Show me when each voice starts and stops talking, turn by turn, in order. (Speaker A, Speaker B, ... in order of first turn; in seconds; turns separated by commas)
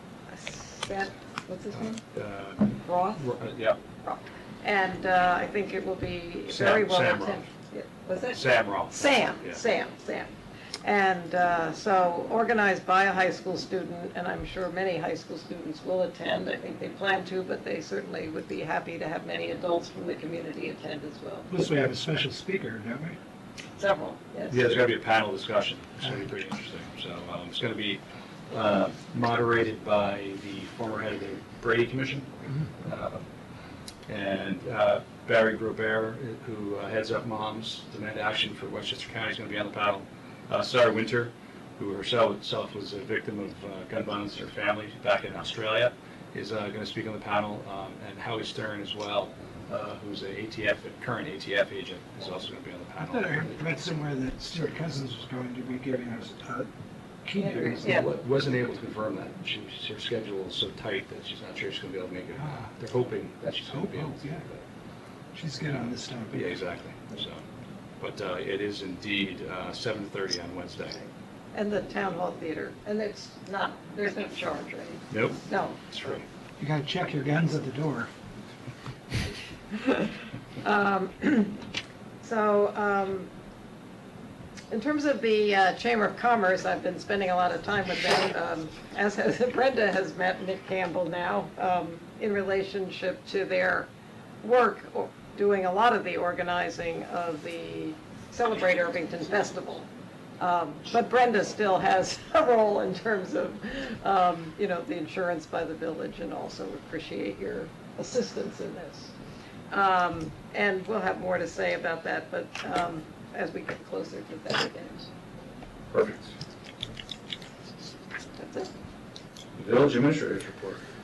Speaker A: 0.3-2.0, Speaker B: 1.7-3.8, Speaker A: 2.8-3.3, Speaker A: 4.0-21.5, Speaker B: 6.5-7.5, Speaker B: 8.3-9.6, Speaker C: 21.5-23.2, Speaker A: 23.7-24.8, Speaker B: 24.5-33.2, Speaker B: 34.1-53.6, Speaker C: 53.0-56.7, Speaker C: 57.2-58.1, Speaker A: 57.4-58.1, Speaker B: 57.8-64.6, Speaker C: 62.3-62.7, Speaker C: 63.6-64.4, Speaker C: 65.3-66.5, Speaker B: 65.7-67.4, Speaker B: 68.0-71.0, Speaker A: 71.5-75.8, Speaker B: 75.1-76.2, Speaker C: 76.6-78.1, Speaker A: 79.7-81.6, Speaker A: 82.2-83.3, Speaker A: 84.7-93.9, Speaker A: 94.4-99.9, Speaker A: 100.4-109.1, Speaker A: 109.7-115.1, Speaker B: 115.9-116.3, Speaker A: 118.4-118.7, Speaker B: 119.5-120.8